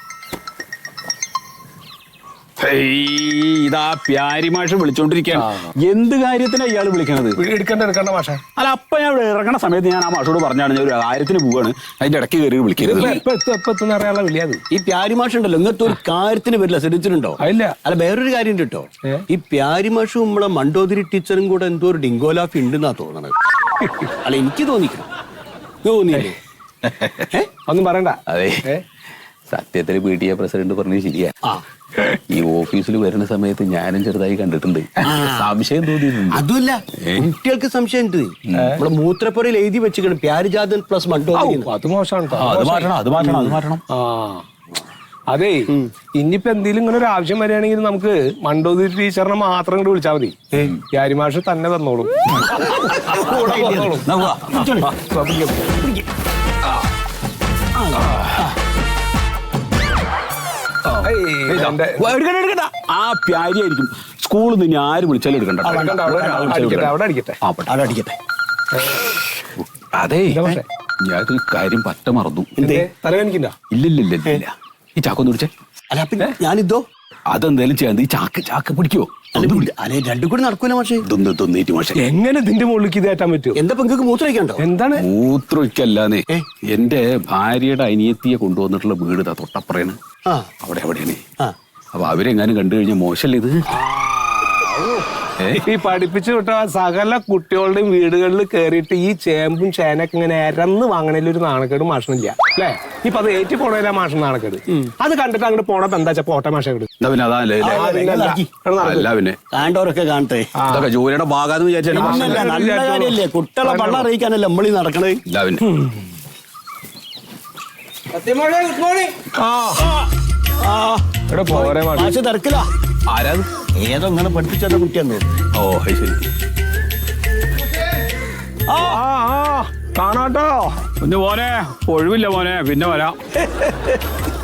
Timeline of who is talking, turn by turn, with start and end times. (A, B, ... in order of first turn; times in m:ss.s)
0:02.6-0:07.4 A
0:07.4-0:08.4 B
0:08.6-0:13.2 A
0:12.8-0:14.6 B
0:12.8-0:13.1 C
0:14.7-0:23.3 C
0:17.4-0:17.7 B
0:24.2-0:25.1 C
0:25.8-0:26.3 C
0:26.8-0:27.2 A
0:27.6-0:28.8 B
0:28.3-0:28.7 A
0:29.5-0:31.3 A
0:32.0-0:36.4 A
0:35.1-0:35.5 C
0:36.3-0:41.7 C
0:38.5-0:38.8 A
0:38.5-0:38.8 B
0:41.4-0:42.9 B
0:42.3-0:43.8 A
0:43.2-0:43.5 C
0:43.9-0:44.4 B
0:45.3-0:52.2 B
0:52.4-0:54.9 C
0:52.6-0:55.7 A
0:53.3-0:54.0 B
0:55.7-0:56.0 C
0:57.8-0:58.5 C
1:00.9-1:07.9 A
1:01.0-1:02.1 B
1:05.6-1:06.6 C
1:05.8-1:07.4 B
1:07.7-1:08.2 C
1:08.8-1:09.0 B
1:09.6-1:10.5 A
1:10.3-1:10.6 B
1:11.0-1:12.7 A
1:12.6-1:12.9 C
1:12.6-1:13.6 B
1:13.7-1:15.5 A
1:15.9-1:16.8 C
1:17.3-1:19.7 A
1:19.4-1:21.1 C
1:21.1-1:22.0 A
1:22.0-1:23.6 B
1:23.6-1:24.6 C
1:24.6-1:25.1 B
1:25.0-1:30.0 A
1:30.6-1:31.2 A
1:31.9-1:33.6 A
1:34.0-1:35.0 B
1:35.6-1:46.9 B
1:47.0-1:47.9 A
1:47.6-1:50.5 C
1:47.7-1:49.0 B
1:48.8-1:49.4 A
1:50.6-1:50.9 B
1:50.7-1:52.5 A
1:51.9-1:55.2 C
1:51.9-1:54.1 B
1:55.3-1:55.6 A
1:55.6-1:55.9 B
1:58.2-1:59.2 C
1:59.4-1:59.8 B
2:00.6-2:02.7 C
2:01.3-2:02.1 B
2:03.1-2:03.5 A
2:03.8-2:05.3 C
2:05.6-2:06.3 A
2:08.7-2:09.0 C
2:08.8-2:10.8 B
2:11.0-2:13.2 A
2:13.7-2:13.9 C